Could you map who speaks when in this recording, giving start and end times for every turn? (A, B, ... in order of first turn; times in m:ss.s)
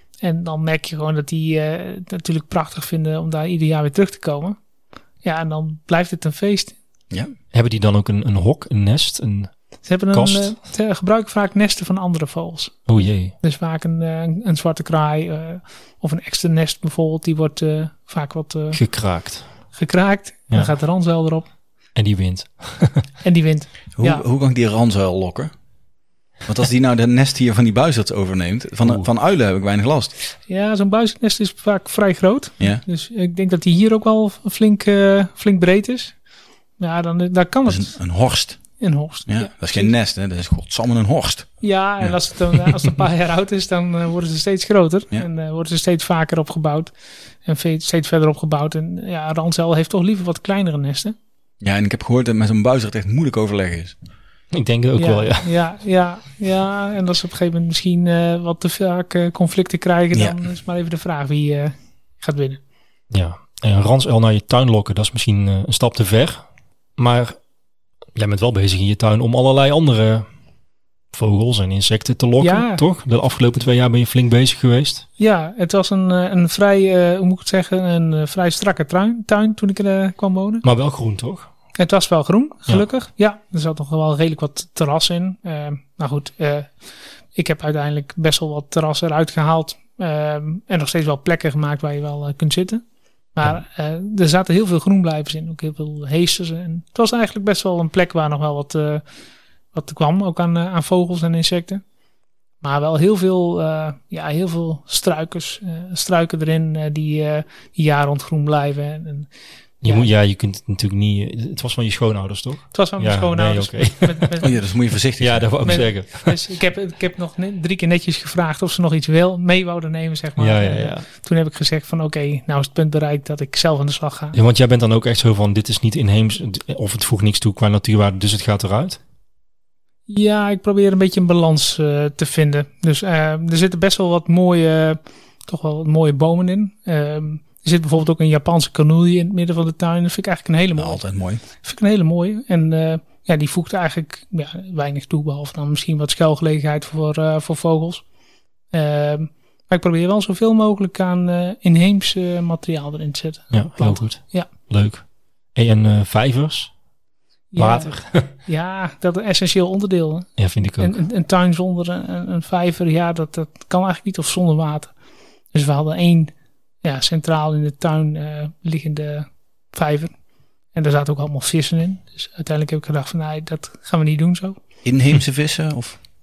0:00.2-0:04.6 A
0:05.2-0:06.7 A
0:07.5-0:09.5 B
0:09.8-0:18.8 A
0:10.1-0:10.5 B
0:12.9-0:13.3 B
0:18.7-0:19.4 B
0:19.7-0:21.4 A
0:21.9-0:23.0 B
0:23.2-0:24.2 A
0:24.0-0:25.5 C
0:26.4-0:30.1 C
0:28.8-0:29.1 B
0:30.5-0:36.1 A
0:36.8-0:38.0 A
0:37.6-0:38.6 C
0:38.8-0:39.9 A
0:39.3-0:42.7 C
0:41.6-0:46.9 A
0:47.4-0:51.1 A
0:51.6-0:54.0 C
0:54.5-0:55.5 B
0:55.0-1:02.6 A
1:03.1-1:06.4 B
1:07.0-1:07.4 B
1:08.1-1:10.3 B
1:11.1-1:15.0 B
1:12.4-1:12.8 A
1:15.2-1:20.6 A
1:20.6-1:21.5 B
1:21.8-1:26.7 A
1:27.3-1:32.8 A
1:33.3-1:39.0 A
1:39.7-1:41.8 A
1:42.6-1:49.3 A
1:49.8-1:54.4 B
1:52.7-1:54.5 A
1:54.4-1:55.8 C
1:55.2-1:56.4 B
1:55.6-2:04.4 A
2:00.4-2:01.0 B
2:04.3-2:09.0 B
2:10.1-2:28.0 A
2:20.8-2:21.4 C
2:28.7-2:34.5 A
2:33.5-2:36.7 B
2:37.5-2:44.9 A
2:37.6-2:38.3 B
2:40.4-2:41.0 B
2:45.5-2:46.3 A
2:46.8-2:50.1 A
2:50.7-2:54.6 A
2:54.8-2:56.0 C